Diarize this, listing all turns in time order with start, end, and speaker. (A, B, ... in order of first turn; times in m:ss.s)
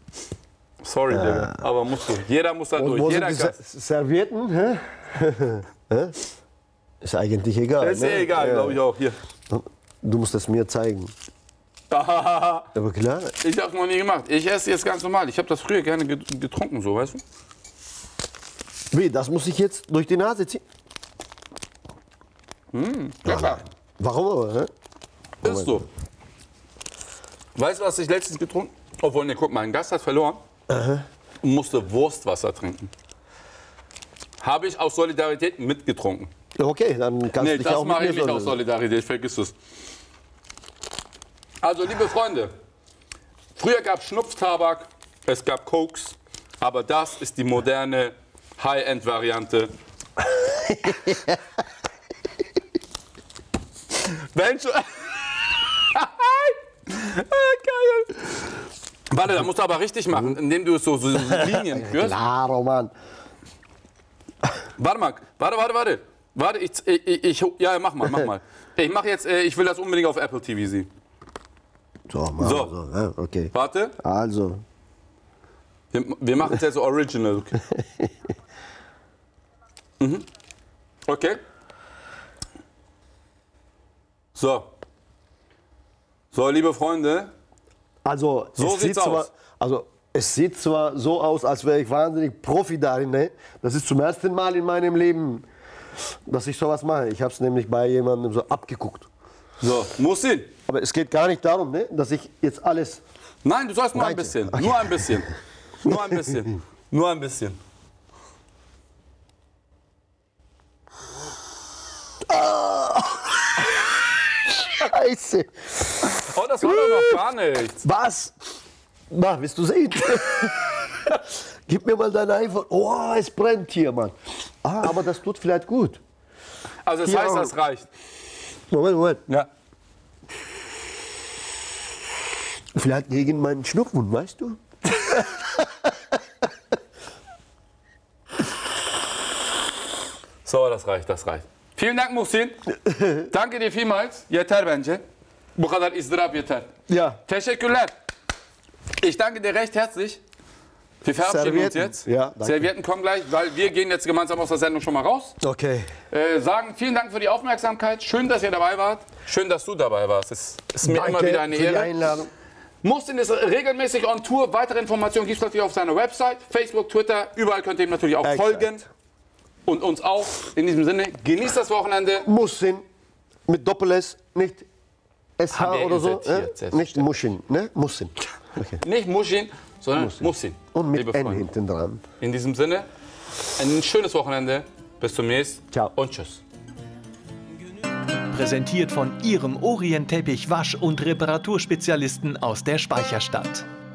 0:00.8-0:03.6 A
0:01.1-0:01.6 B
0:02.8-0:06.2 B
0:07.0-0:08.8 B
0:07.8-0:09.2 A
0:09.5-0:11.1 B
0:11.9-0:12.7 A
0:12.8-0:13.4 B
0:13.4-0:17.2 A
0:18.9-0:20.6 B
0:22.7-0:23.6 A
0:23.3-0:24.7 B
0:25.4-0:25.8 B
0:25.4-0:25.9 A
0:27.6-0:30.4 A
0:30.7-0:31.1 B
0:31.4-0:32.9 A
0:34.4-0:36.3 A
0:36.6-0:38.6 B
0:37.4-0:39.5 A
0:41.6-0:42.5 A
0:43.6-0:49.7 A
0:50.3-0:51.4 B
0:54.0-0:58.4 A
0:59.1-1:02.2 A
1:01.2-1:02.9 B
1:04.8-1:10.9 A
1:12.1-1:14.6 B
1:12.4-1:12.7 A
1:13.5-1:14.0 A
1:15.9-1:17.6 A
1:17.7-1:18.1 B
1:20.0-1:20.2 A
1:21.1-1:21.4 A
1:24.4-1:24.7 A
1:26.3-1:27.3 A
1:28.0-1:35.5 B
1:28.6-1:29.3 A
1:36.3-1:39.1 B
1:39.6-1:40.5 A
1:40.7-1:43.0 B
1:43.4-1:45.3 A
1:44.0-1:45.3 B
1:45.8-1:47.6 A
1:45.9-1:46.4 B
1:52.3-1:57.2 B
1:56.0-1:57.8 A
1:57.8-1:58.3 B
1:59.1-2:06.0 B
2:06.9-2:07.9 A
2:07.0-2:07.5 B
2:08.7-2:09.2 B
2:12.7-2:16.1 B
2:20.4-2:22.6 A
2:22.8-2:23.3 B
2:23.2-2:25.0 A
2:25.6-2:26.7 A
2:26.9-2:27.2 B
2:27.3-2:27.9 A
2:29.0-2:30.2 A
2:31.0-2:35.4 A
2:31.2-2:32.7 B
2:35.4-2:35.9 B
2:36.1-2:42.0 A
2:40.8-2:42.3 B
2:42.8-2:48.8 A
2:48.2-2:48.9 B
2:49.7-2:52.3 A
2:52.3-2:52.8 B
2:53.5-2:54.7 B
2:55.4-2:58.8 B
2:55.5-2:57.1 A
2:58.8-3:01.5 A
3:00.0-3:02.0 B
3:02.2-3:02.9 A
3:03.6-3:06.4 A
3:08.3-3:13.7 C